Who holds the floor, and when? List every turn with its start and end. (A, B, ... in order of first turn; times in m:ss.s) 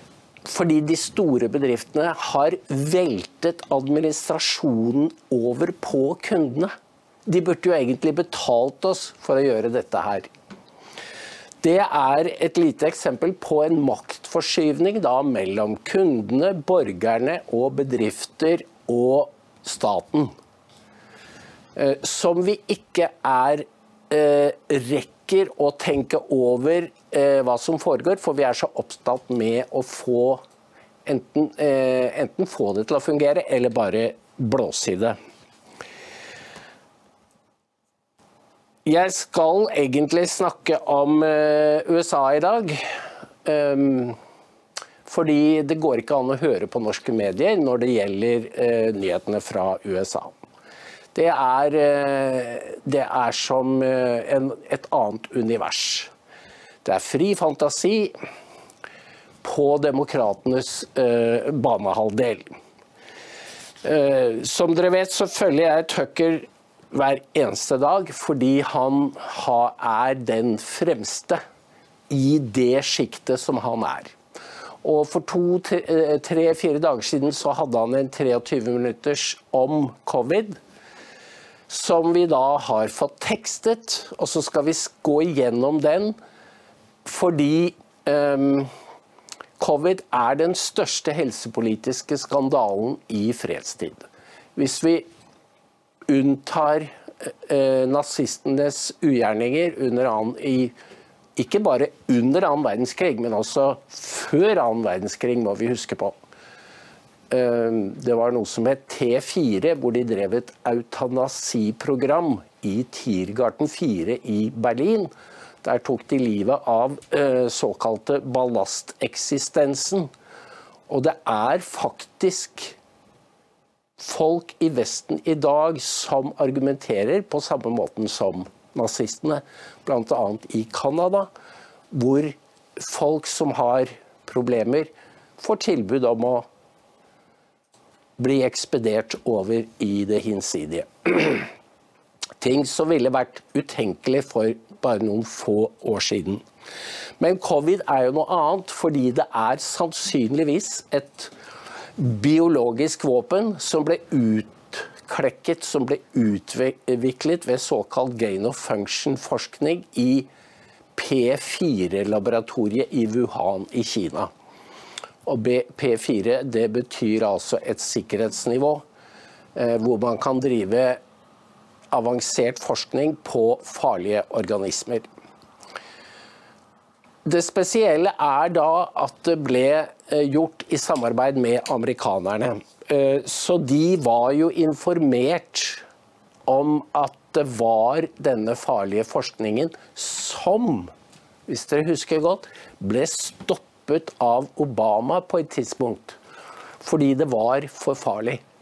0:00.4-0:06.7 A
0:07.2-0:10.3 A
0:11.6-0:20.3 A
0:21.7-0:30.4 A
0:31.0-0:35.2 A
0:38.8-0:42.9 A
0:43.4-0:44.2 A
0:45.0-0:50.3 A
0:51.1-0:56.1 A
0:56.8-0:58.1 A
0:59.4-1:02.5 A
1:03.8-1:11.4 A
1:12.1-1:14.2 A
1:14.8-1:20.6 A
1:21.7-1:26.2 A
1:27.0-1:28.7 A
1:29.6-1:35.1 A
1:36.1-1:40.7 A
1:41.4-1:46.2 A
1:47.3-1:55.1 A
1:55.6-2:00.1 A
2:00.9-2:02.8 A
2:04.0-2:11.3 A
2:11.9-2:16.5 A
2:18.2-2:21.5 A
2:22.4-2:26.4 A
2:27.2-2:31.3 A
2:32.0-2:40.3 A
2:41.0-2:44.3 A
2:45.2-2:48.8 A
2:49.5-2:51.0 A
2:51.9-2:55.0 A
2:57.2-3:05.8 A
3:06.5-3:10.9 A
3:11.5-3:16.2 A
3:16.8-3:18.4 A